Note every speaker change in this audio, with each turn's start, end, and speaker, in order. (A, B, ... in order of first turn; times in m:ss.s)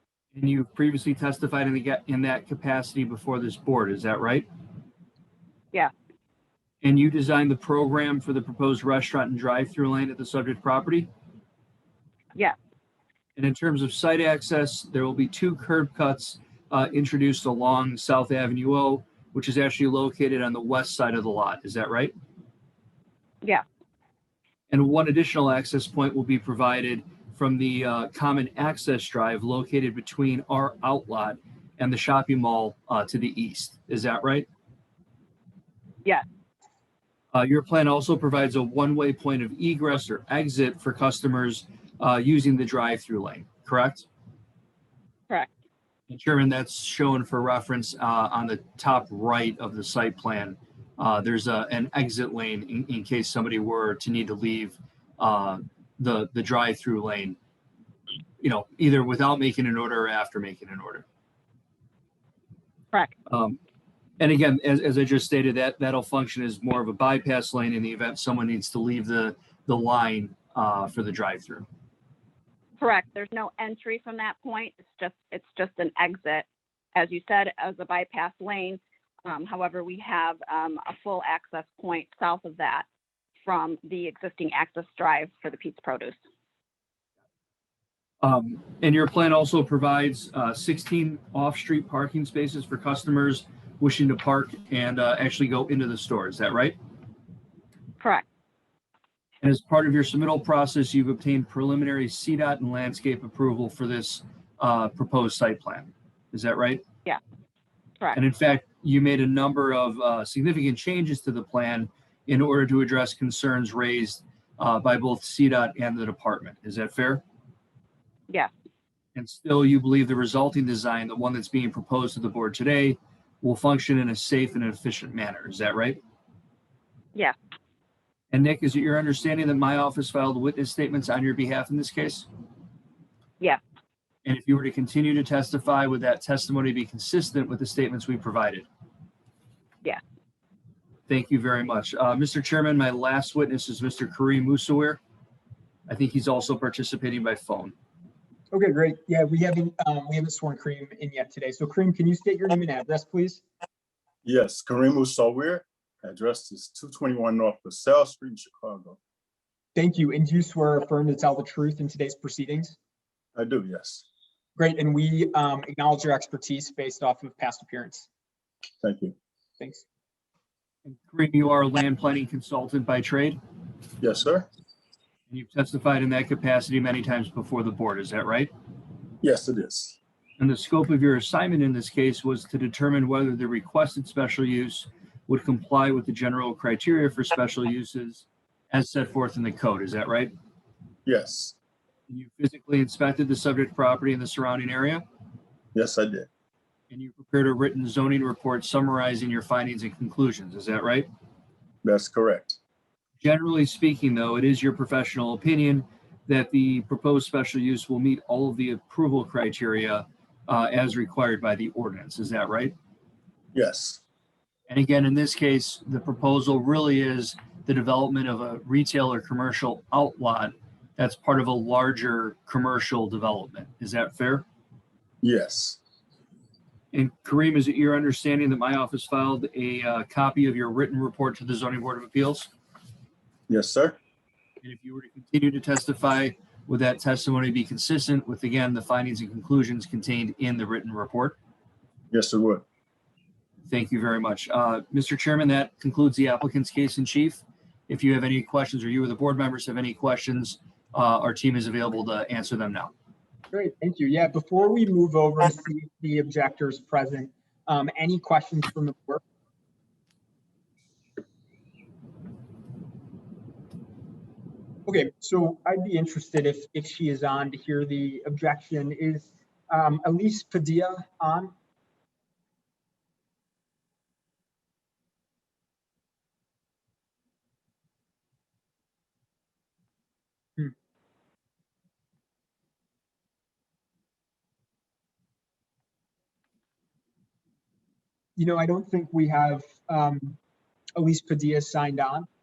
0:00.3-0:04.5 A
0:06.8-0:11.1 A
0:13.4-0:22.1 A
0:24.7-0:34.5 A
0:37.3-0:44.0 A
0:46.1-0:57.4 A
0:58.4-1:01.0 A
1:03.3-1:03.6 A
1:04.2-1:11.7 A
1:12.8-1:22.8 B
1:23.4-1:26.2 B
1:28.2-1:36.8 A
1:38.0-1:38.2 B
1:39.4-1:46.8 A
1:48.1-1:57.2 A
1:59.1-2:06.0 A
2:08.3-2:12.3 A
2:14.2-2:18.7 A
2:21.1-2:25.0 A
2:25.9-2:27.7 A
2:28.5-2:33.4 C
2:34.2-2:39.0 D
2:39.7-2:42.8 C
2:43.4-2:44.0 D
2:44.6-2:48.1 C
2:48.8-2:49.1 D
2:50.8-2:53.4 A
2:54.0-2:54.5 D
2:55.3-2:58.5 A
2:59.2-3:00.0 D
3:00.4-3:10.3 A
3:11.0-3:11.5 D
3:12.1-3:15.0 A
3:15.7-3:16.3 D
3:16.9-3:21.1 A
3:21.8-3:22.6 D
3:23.2-3:32.7 A
3:33.5-3:34.0 D
3:34.7-3:44.4 A
3:45.2-3:45.8 D
3:46.9-3:52.5 A
3:53.5-3:54.0 D
3:54.6-4:01.4 A
4:02.1-4:02.6 D
4:03.6-4:12.9 A
4:13.5-4:19.2 C
4:24.8-4:31.5 C
4:48.4-4:50.4 C
4:51.0-4:52.3 C